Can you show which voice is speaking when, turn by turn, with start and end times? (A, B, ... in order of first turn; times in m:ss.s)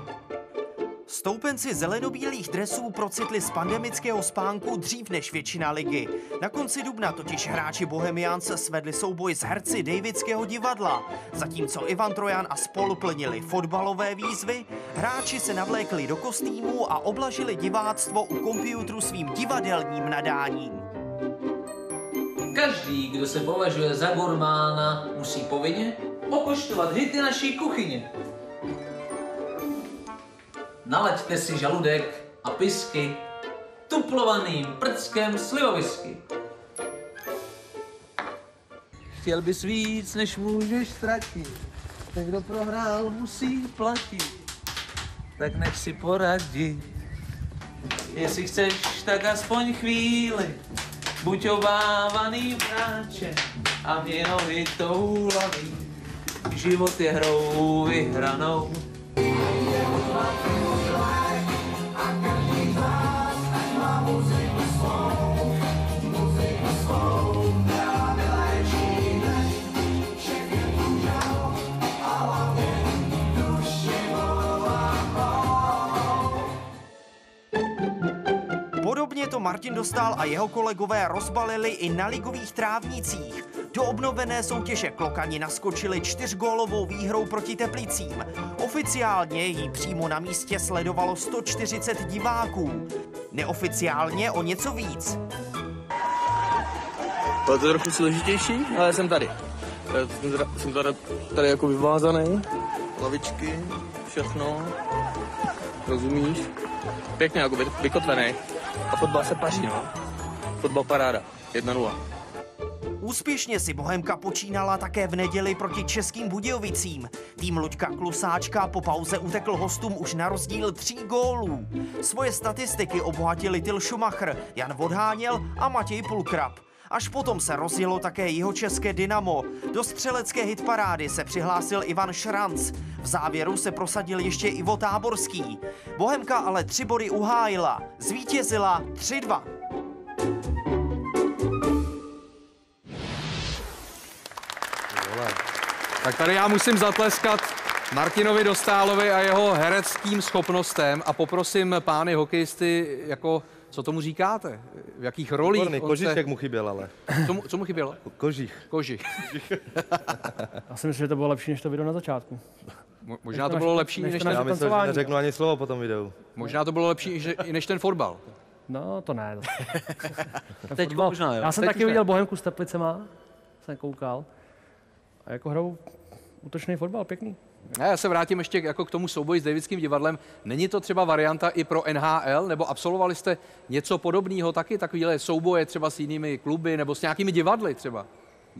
0:01.1-0:20.8 A
0:22.5-0:28.1 B
0:30.8-0:33.2 B
0:33.9-0:36.2 B
0:39.2-0:41.6 B
0:42.1-0:44.3 B
0:45.4-0:46.9 B
0:48.1-0:50.6 B
0:51.2-0:55.8 B
0:56.4-0:58.8 B
1:18.8-1:35.2 A
1:37.5-1:39.3 C
1:39.9-1:42.4 C
1:43.0-1:44.7 C
1:45.9-1:46.5 C
1:47.2-1:48.4 C
1:48.9-1:49.9 C
1:50.6-1:52.0 C
1:53.0-2:19.5 A
2:26.0-2:36.2 D
2:35.4-2:36.9 E
2:37.2-2:38.0 D
2:38.0-2:38.6 E
2:38.7-2:40.0 D
2:40.7-2:42.4 F
2:43.0-2:44.5 D
2:43.3-2:45.1 F
2:44.2-2:46.2 E
2:46.3-2:48.2 D
2:48.7-2:53.1 F
2:50.7-2:52.0 B
2:53.6-2:54.3 F
2:55.2-2:57.4 F
2:57.7-3:08.1 D